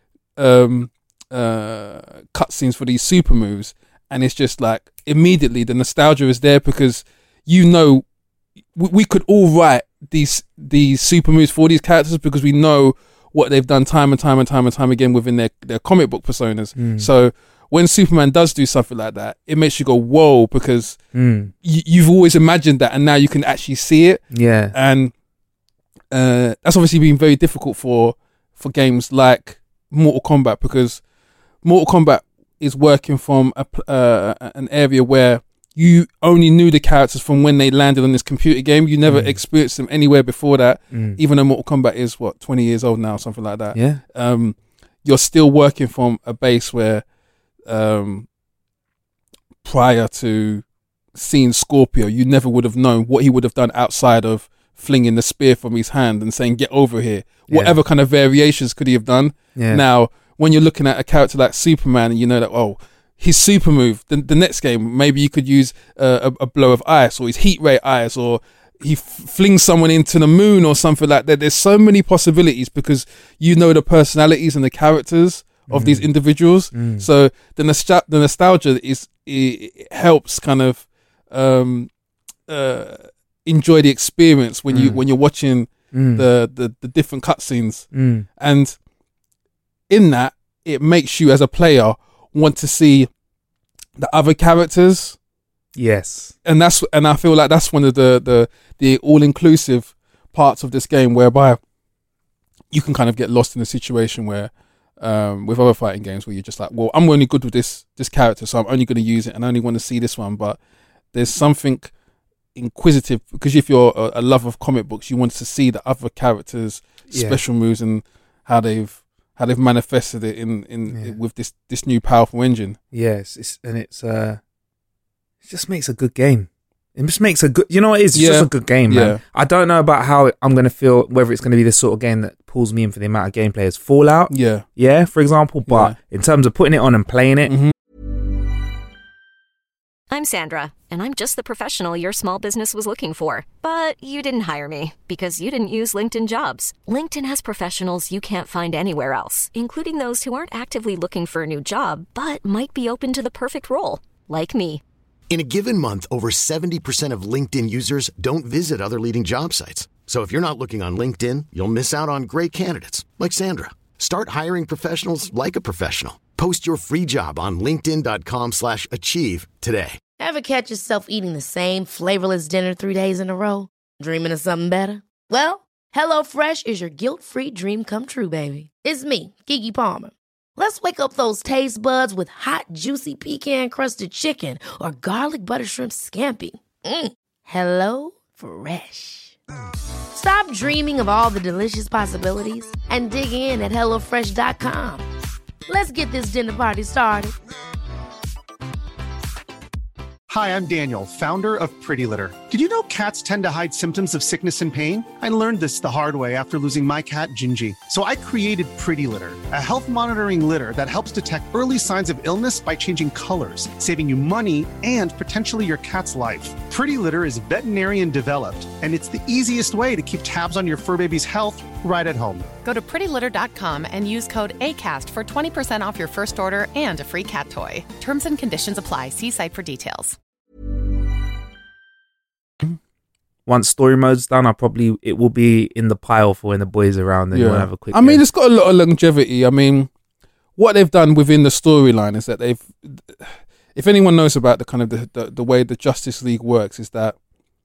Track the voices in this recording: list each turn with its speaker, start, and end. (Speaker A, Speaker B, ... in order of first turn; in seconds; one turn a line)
Speaker A: 0.4-8.0
Speaker A: 8.7-21.0
Speaker B: 16.8-17.1
Speaker B: 21.1-21.5
Speaker A: 21.6-25.1
Speaker B: 24.3-24.7
Speaker A: 26.1-31.0
Speaker A: 31.6-47.0
Speaker B: 39.1-39.4
Speaker B: 40.9-41.2
Speaker B: 43.7-44.0
Speaker A: 47.7-48.3
Speaker A: 49.6-81.9
Speaker B: 57.5-57.8
Speaker B: 59.5-59.8
Speaker B: 75.7-76.1
Speaker B: 76.7-77.0
Speaker A: 82.5-88.8
Speaker B: 84.7-85.0
Speaker B: 85.9-86.3
Speaker B: 87.9-88.2
Speaker A: 89.9-93.1
Speaker A: 94.0-95.2
Speaker B: 95.7-96.3
Speaker A: 96.4-101.6
Speaker A: 102.7-110.6
Speaker A: 111.1-111.9
Speaker A: 112.5-122.8
Speaker B: 117.1-117.4
Speaker B: 122.9-124.4
Speaker B: 125.4-137.6
Speaker A: 128.1-129.2
Speaker A: 134.3-134.7
Speaker A: 135.7-135.9
Speaker A: 137.5-137.7
Speaker C: 140.1-154.8
Speaker D: 155.3-170.0
Speaker E: 170.2-189.3
Speaker E: 190.1-195.1
Speaker E: 195.7-197.3
Speaker F: 200.3-222.5
Speaker G: 222.6-230.2
Speaker B: 233.4-238.2
Speaker A: 237.3-239.9
Speaker A: 240.6-247.2